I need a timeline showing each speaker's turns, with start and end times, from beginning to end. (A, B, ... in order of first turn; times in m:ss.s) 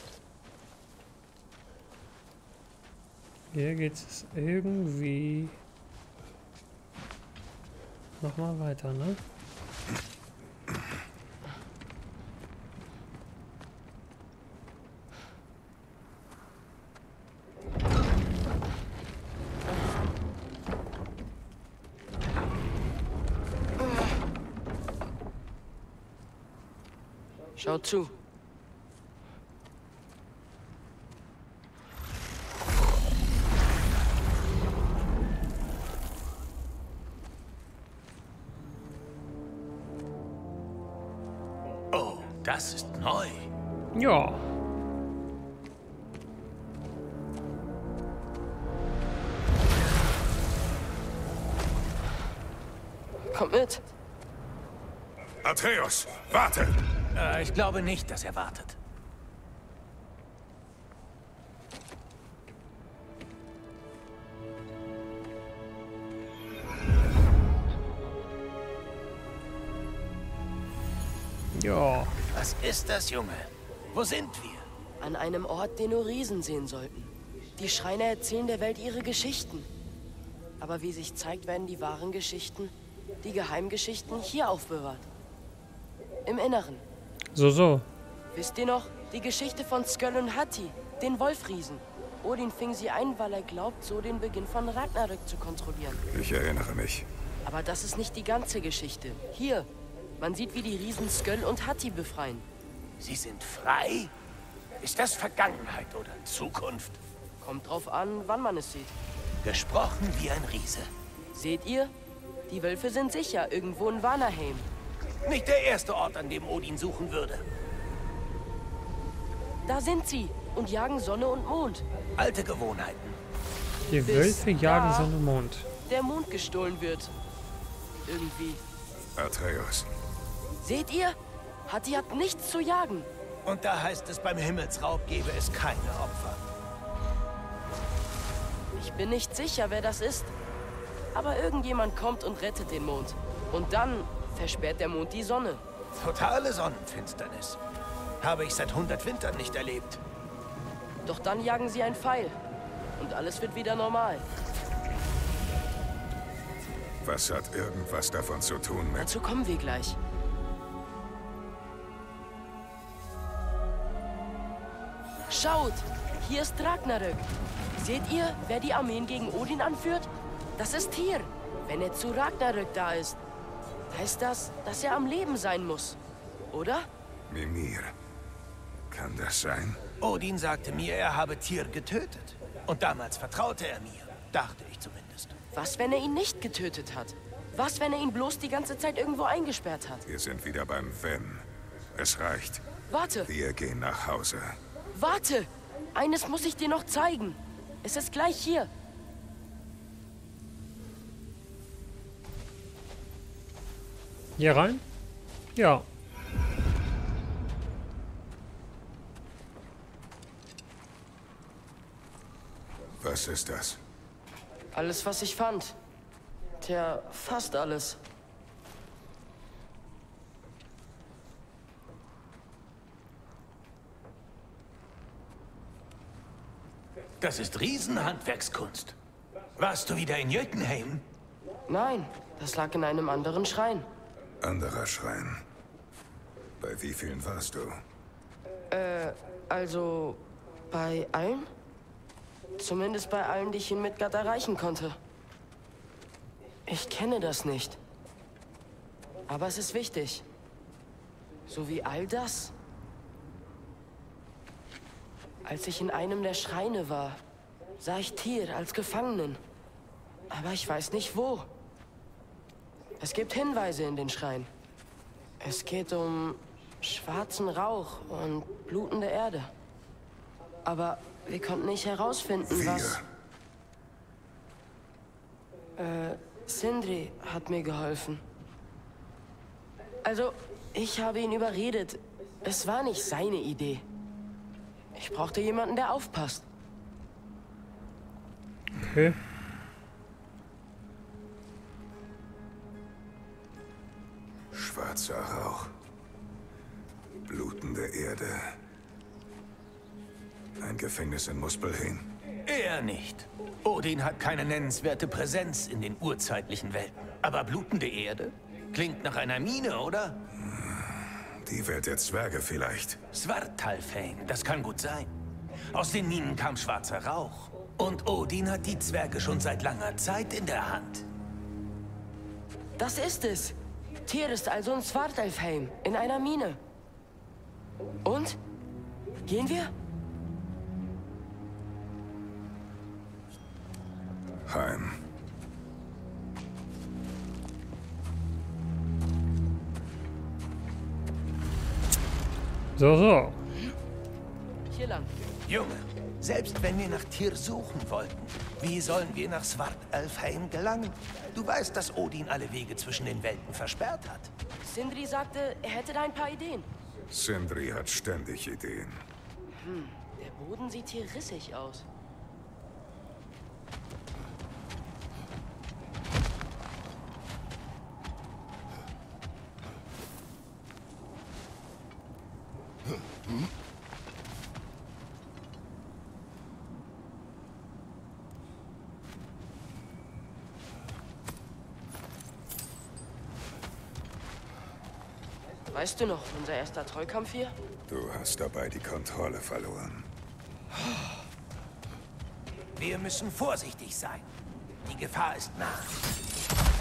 0:03.5-0:05.6 A
0:08.2-0:09.2 A
0:27.6-0:28.1 B
0:41.9-0:43.5 C
0:43.9-0:44.4 A
0:53.3-0:53.8 B
0:55.4-0:56.8 D
0:57.1-0:58.8 C
1:11.5-1:12.1 A
1:12.3-1:14.7 C
1:15.0-1:19.7 B
1:20.6-1:25.1 B
1:26.2-1:26.8 B
1:27.3-1:27.8 A
1:28.3-1:36.0 B
1:36.1-1:37.1 D
1:37.4-1:39.7 B
1:40.2-1:42.4 B
1:43.0-1:44.1 C
1:44.8-1:47.0 C
1:47.4-1:48.9 B
1:49.4-1:50.9 C
1:51.3-1:51.9 B
1:52.5-1:54.7 B
1:55.2-1:57.4 C
1:59.6-2:01.8 B
2:02.2-2:03.2 C
2:03.9-2:05.7 A
2:04.0-2:05.1 B
2:05.9-2:07.1 B
2:08.0-2:08.6 B
2:09.1-2:09.9 D
2:10.6-2:13.1 B
2:13.4-2:16.4 C
2:18.7-2:20.3 B
2:21.1-2:25.6 B
2:26.0-2:27.6 C
2:28.2-2:30.0 C
2:31.0-2:32.4 B
2:33.0-2:34.2 B
2:37.0-2:39.1 D
2:39.0-2:40.0 B
2:45.3-2:47.3 B
2:47.8-2:53.2 B
2:53.9-2:56.0 B
2:56.5-2:56.9 B
2:57.3-2:57.9 D
2:58.9-2:59.8 D
3:00.0-3:05.3 C
3:05.5-3:10.0 B
3:10.0-3:12.7 D
3:12.9-3:13.3 B
3:13.2-3:14.6 D
3:14.9-3:18.7 B
3:24.4-3:24.8 A
3:25.6-3:25.8 A
3:33.0-3:33.8 D
3:34.7-3:35.8 B
3:36.6-3:38.0 B
3:47.2-3:48.9 C
3:49.6-3:51.0 C
3:51.7-3:53.9 B
3:54.4-3:55.4 D
3:56.6-3:57.8 D
3:58.7-4:01.5 B
4:02.6-4:05.0 B
4:06.7-4:07.8 B
4:09.3-4:10.2 B
4:11.5-4:12.5 B
4:15.4-4:17.2 B
4:17.8-4:19.4 B
4:20.3-4:21.5 B
4:23.0-4:24.5 B
4:25.4-4:29.5 B
4:30.6-4:33.0 B
4:32.4-4:33.0 D
4:35.8-4:38.2 B
4:40.0-4:43.8 B
4:44.9-4:46.4 B
4:48.8-4:49.2 A
4:54.5-4:55.7 D
4:57.2-4:58.6 D
5:00.6-5:02.1 D
5:02.4-5:10.2 C
5:10.3-5:13.0 D
5:13.1-5:15.1 C
5:15.7-5:21.0 C
5:22.8-5:26.6 B
5:28.0-5:28.4 B
5:29.2-5:29.7 B
5:34.4-5:35.0 D
5:42.8-5:43.4 A
5:44.7-5:45.1 B
5:45.5-5:54.3 C
5:54.6-5:56.7 B
5:57.1-5:59.0 D
5:59.5-6:01.8 B
6:25.7-6:27.5 B
6:27.9-6:30.1 D
6:32.8-6:34.3 C
6:34.8-6:36.0 C